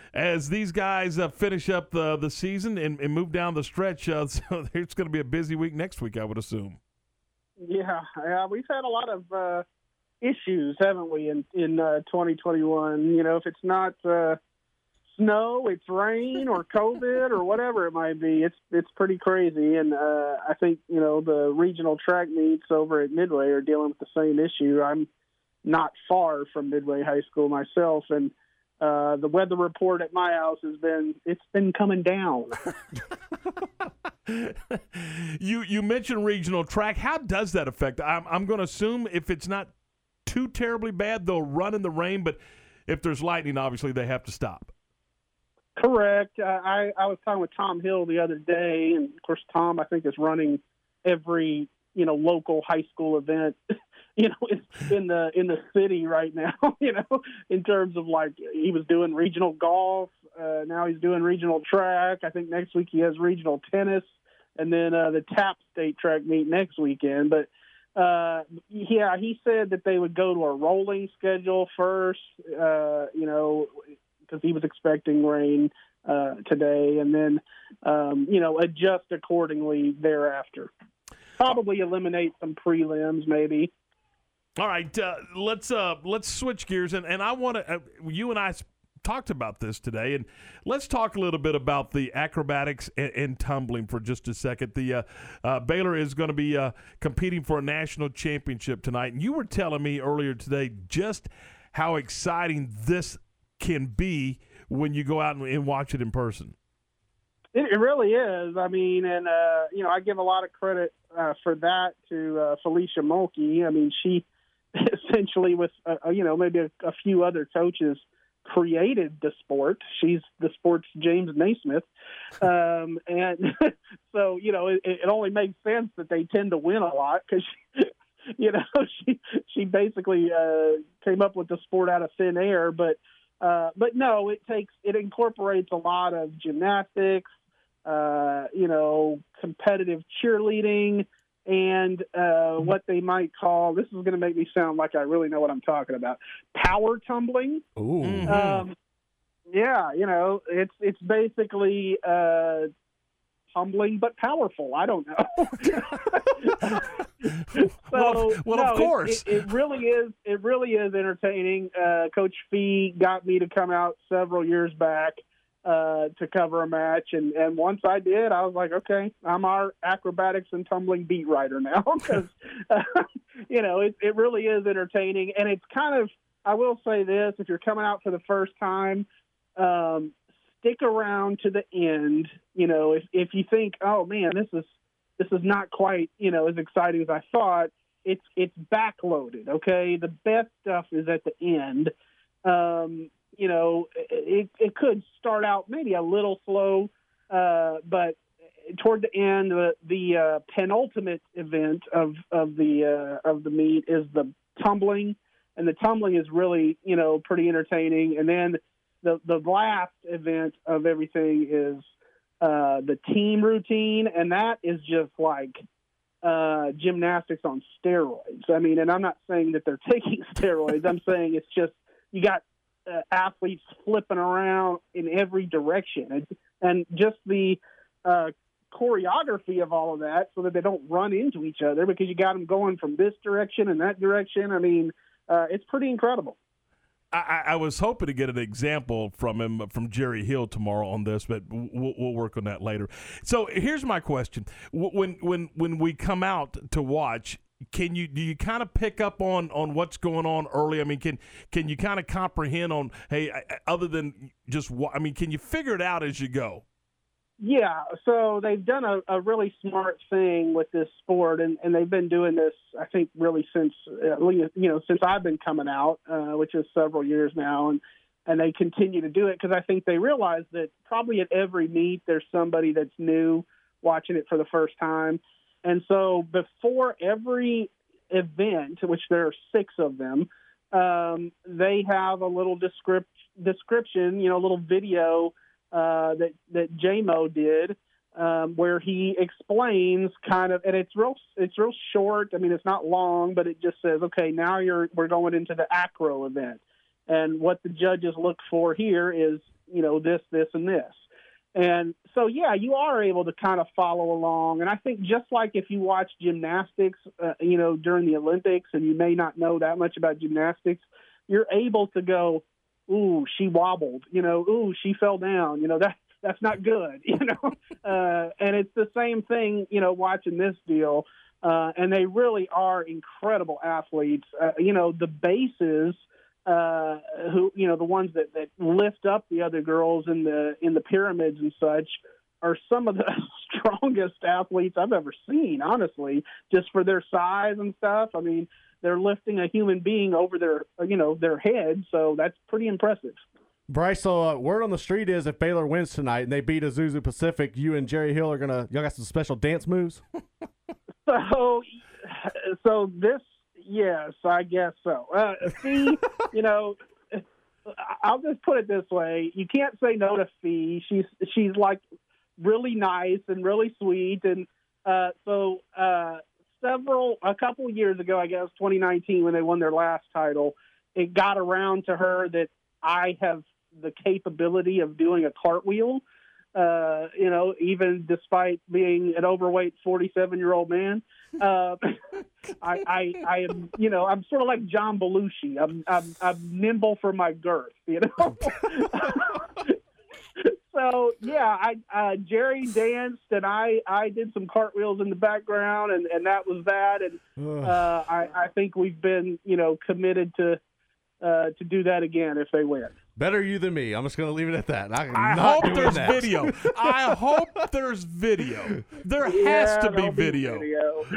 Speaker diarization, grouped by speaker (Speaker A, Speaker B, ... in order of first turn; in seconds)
Speaker A: 0.1-6.8, 34.3-39.7, 40.3-44.7, 84.6-106.5, 148.0-148.7, 155.6-156.0, 157.6-159.5, 237.1-256.6, 405.1-410.7
Speaker B: 7.6-9.6, 10.2-14.4, 15.2-25.1, 25.6-32.6, 45.8-53.6, 54.2-80.7, 81.4-83.7, 107.5-114.2, 114.8-121.9, 122.4-137.3, 137.9-147.6, 148.3-148.7, 149.5-152.7, 153.5-156.8, 157.9-179.1, 179.6-191.9, 192.4-198.2, 198.8-211.9, 212.4-215.6, 216.2-236.4, 257.4-301.0, 301.6-343.2, 351.1-361.8, 362.4-376.0, 376.6-381.8, 382.6-389.7, 390.4-400.6, 401.2-402.9, 409.2-411.1
Speaker C: 147.8-148.4, 343.7-350.0, 397.4-397.9, 403.2-407.1